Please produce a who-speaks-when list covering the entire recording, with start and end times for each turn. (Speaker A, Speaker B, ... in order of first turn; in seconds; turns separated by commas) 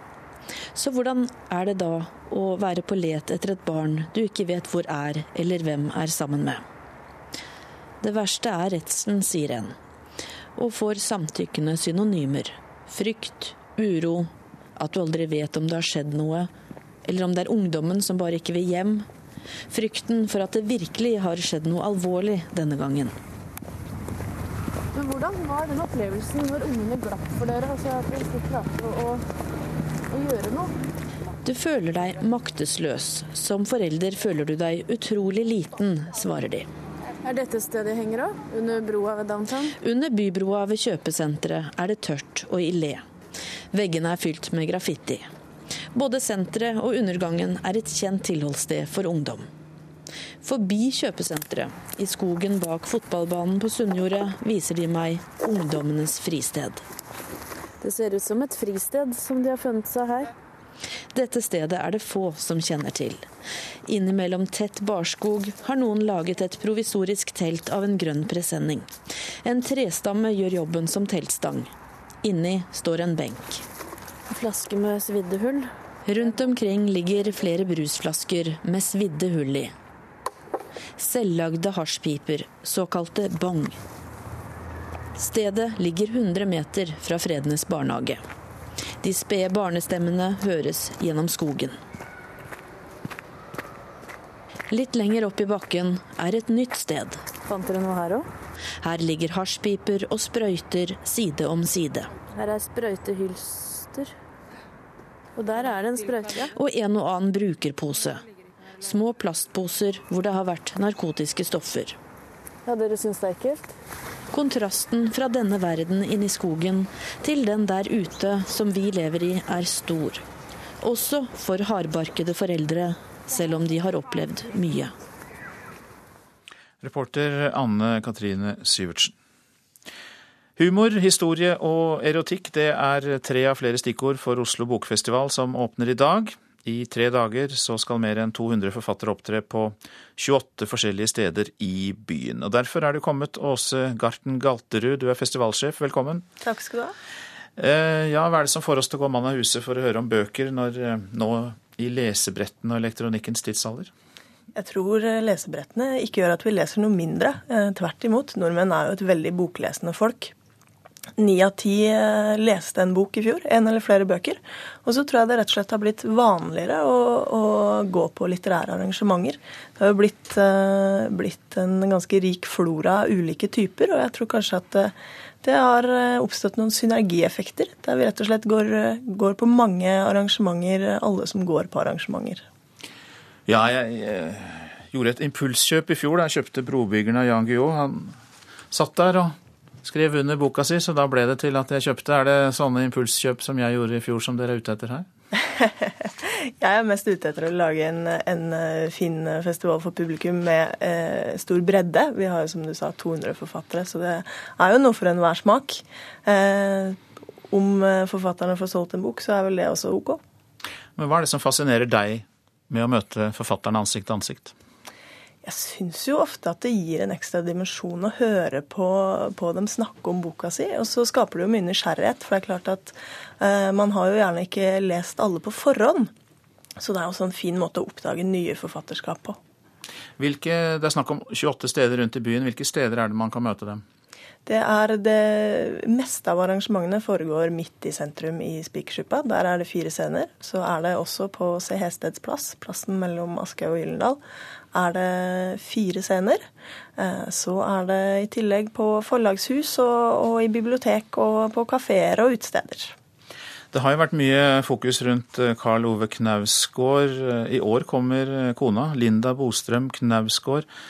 Speaker A: 0.7-6.6, Speaker A: 8.0-9.8, Speaker A: 10.6-16.5, Speaker A: 17.0-19.1, Speaker A: 19.7-23.1, Speaker B: 24.9-29.2, Speaker B: 30.1-30.7, Speaker A: 31.4-36.7, Speaker B: 37.2-39.7, Speaker A: 39.8-43.0, Speaker A: 43.7-45.3, Speaker A: 45.9-49.5, Speaker A: 50.4-56.8, Speaker B: 57.8-60.3, Speaker A: 61.1-63.2, Speaker A: 63.9-68.9, Speaker A: 69.4-71.7, Speaker A: 72.2-73.6, Speaker B: 74.3-75.7, Speaker A: 76.0-79.7, Speaker A: 81.0-83.8, Speaker A: 85.2-88.2, Speaker A: 89.0-91.8, Speaker A: 94.7-97.2, Speaker B: 97.5-98.2, Speaker A: 98.8-102.1, Speaker B: 102.2-104.1, Speaker B: 105.4-106.5, Speaker A: 106.5-108.2, Speaker A: 108.8-112.0, Speaker B: 112.7-113.7, Speaker A: 114.3-120.2, Speaker A: 120.8-124.9, Speaker C: 126.8-129.1, Speaker C: 130.6-146.2, Speaker D: 146.4-146.9, Speaker C: 147.6-153.9, Speaker D: 154.5-160.3, Speaker D: 161.2-182.4, Speaker C: 183.5-188.2, Speaker C: 188.7-195.1, Speaker D: 195.4-210.2, Speaker C: 211.0-214.5, Speaker D: 215.4-226.1, Speaker D: 226.8-229.4, Speaker C: 230.2-233.8, Speaker D: 234.4-244.2, Speaker D: 244.7-252.9, Speaker C: 253.7-260.6